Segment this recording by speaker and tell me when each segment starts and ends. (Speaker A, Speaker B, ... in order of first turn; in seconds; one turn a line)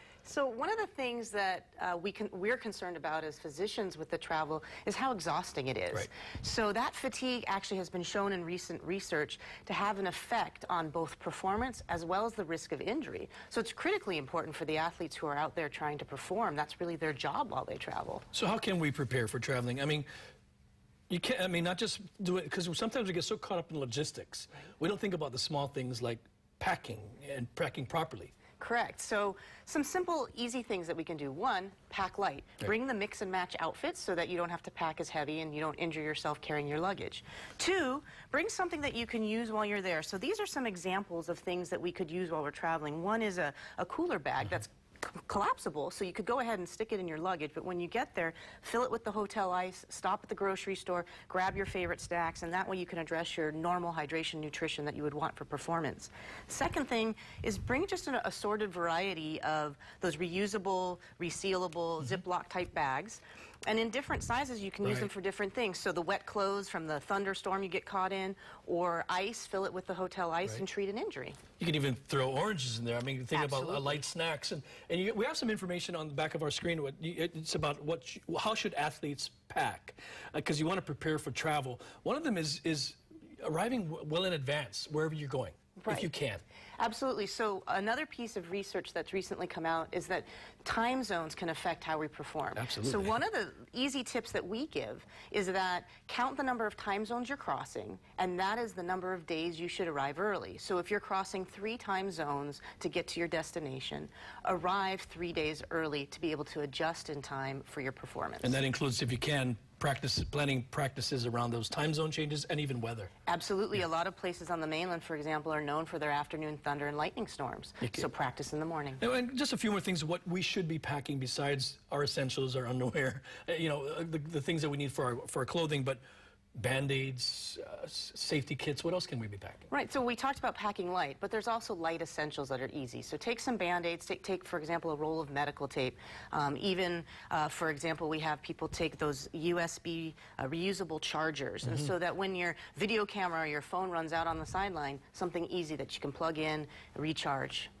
Speaker A: 0.2-18.3
Speaker B: 18.3-20.1
Speaker B: 21.1-28.3
Speaker A: 28.6-71.4
Speaker B: 71.6-86.4
Speaker A: 73.3-74.0
Speaker A: 85.8-86.1
Speaker A: 86.8-108.5
Speaker B: 92.5-93.2
Speaker B: 108.4-113.1
Speaker A: 113.3-119.0
Speaker B: 117.8-118.0
Speaker B: 119.0-126.0
Speaker B: 126.5-129.7
Speaker A: 129.7-147.7
Speaker B: 141.6-141.9